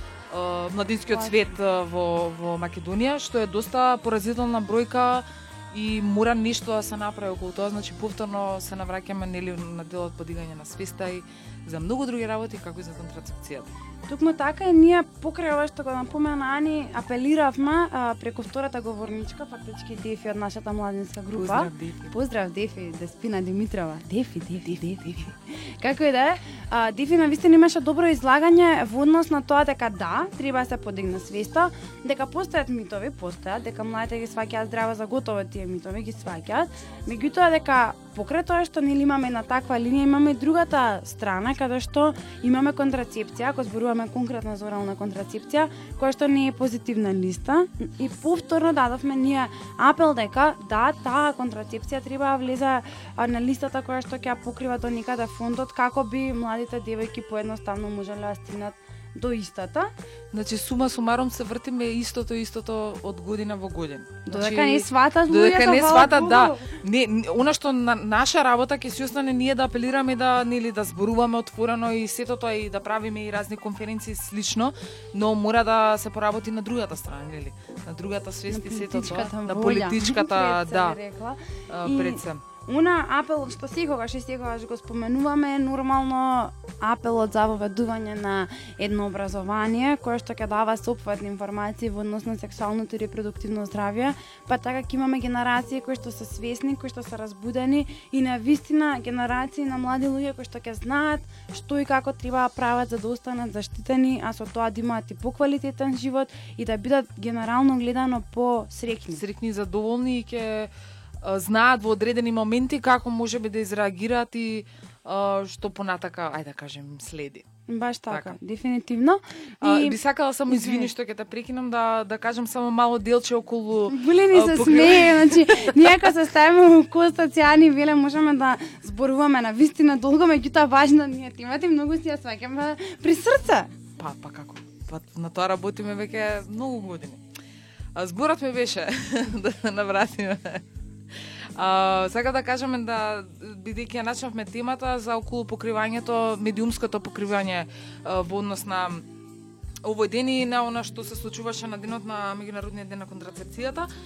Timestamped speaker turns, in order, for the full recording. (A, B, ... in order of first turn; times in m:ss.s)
0:00.3-0:13.7 A
0:01.1-0:01.5 B
0:14.1-0:59.9 B
0:21.3-0:22.1 A
1:00.3-1:21.0 A
1:04.3-1:06.7 B
1:18.5-1:49.2 B
1:21.7-1:22.4 A
1:49.1-1:50.7 A
1:51.2-1:57.4 A
1:57.7-2:00.0 B
1:58.1-1:58.4 A
1:59.6-2:06.1 A
2:00.5-2:00.9 B
2:03.9-2:13.7 B
2:14.0-2:17.2 A
2:18.0-2:20.6 A
2:21.6-2:29.1 A
2:29.8-2:33.9 A